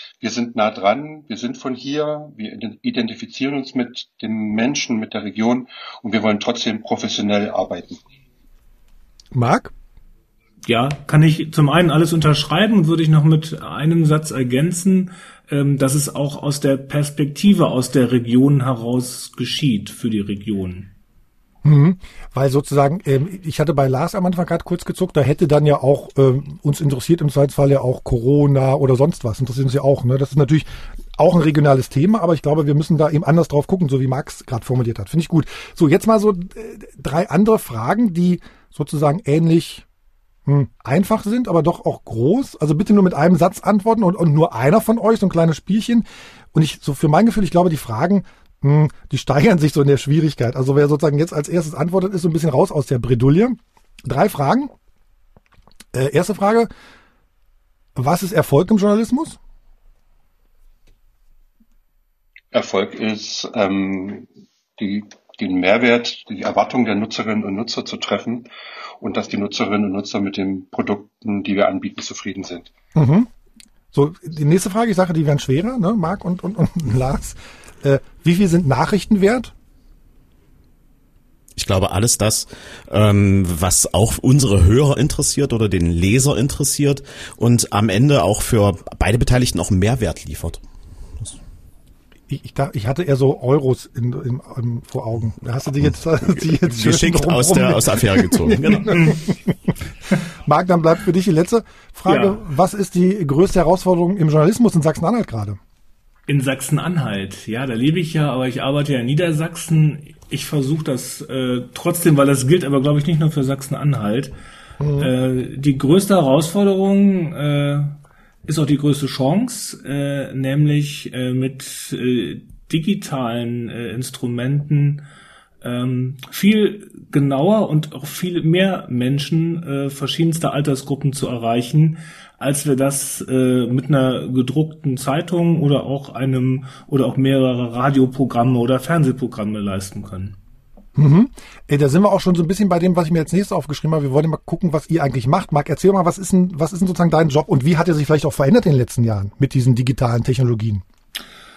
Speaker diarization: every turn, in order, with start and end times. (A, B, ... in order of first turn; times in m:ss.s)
0:00.2-0:08.0 A
0:09.3-0:09.7 B
0:10.7-0:20.9 C
0:21.6-0:39.8 B
0:40.5-0:54.7 B
0:55.9-0:56.7 B
0:58.0-0:59.4 B
1:02.5-1:08.5 A
1:09.0-1:12.7 A
1:13.0-1:13.3 B
1:13.9-1:19.5 B
1:21.6-1:30.6 D
1:32.3-1:39.3 B
1:35.8-1:39.1 D
1:38.9-1:39.2 C
1:40.5-1:45.6 B
1:42.1-1:42.4 C
1:46.3-1:54.3 C
1:54.8-1:55.1 B
1:55.0-1:58.0 C
1:58.5-2:05.0 C
2:05.6-2:20.4 C
2:21.0-2:30.8 B